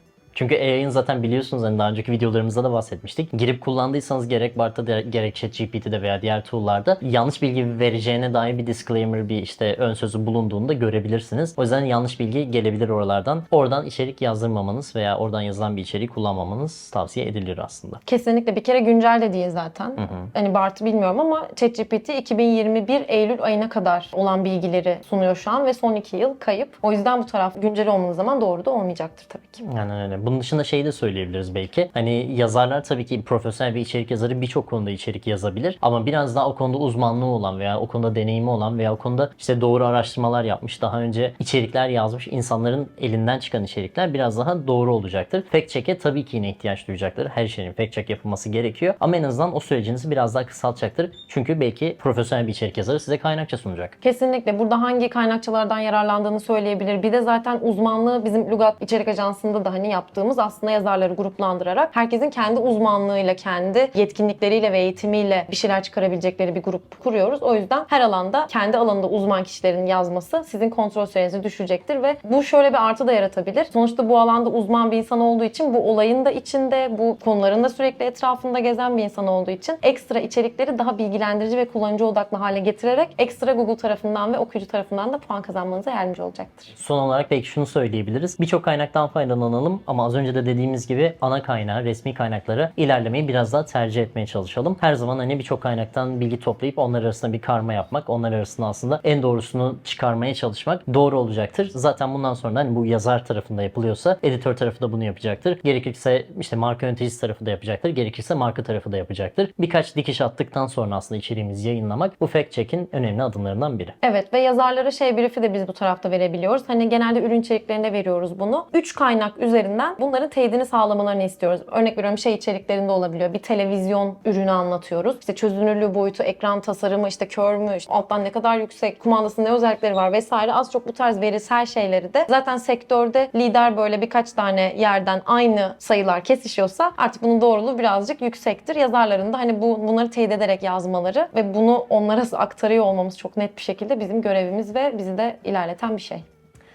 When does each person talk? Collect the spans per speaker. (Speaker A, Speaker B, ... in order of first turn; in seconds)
Speaker A: 0.3-18.0, 20.0-20.3, 29.6-53.9, 86.8-113.9
Speaker B: 18.1-29.6, 54.0-86.7, 114.0-146.2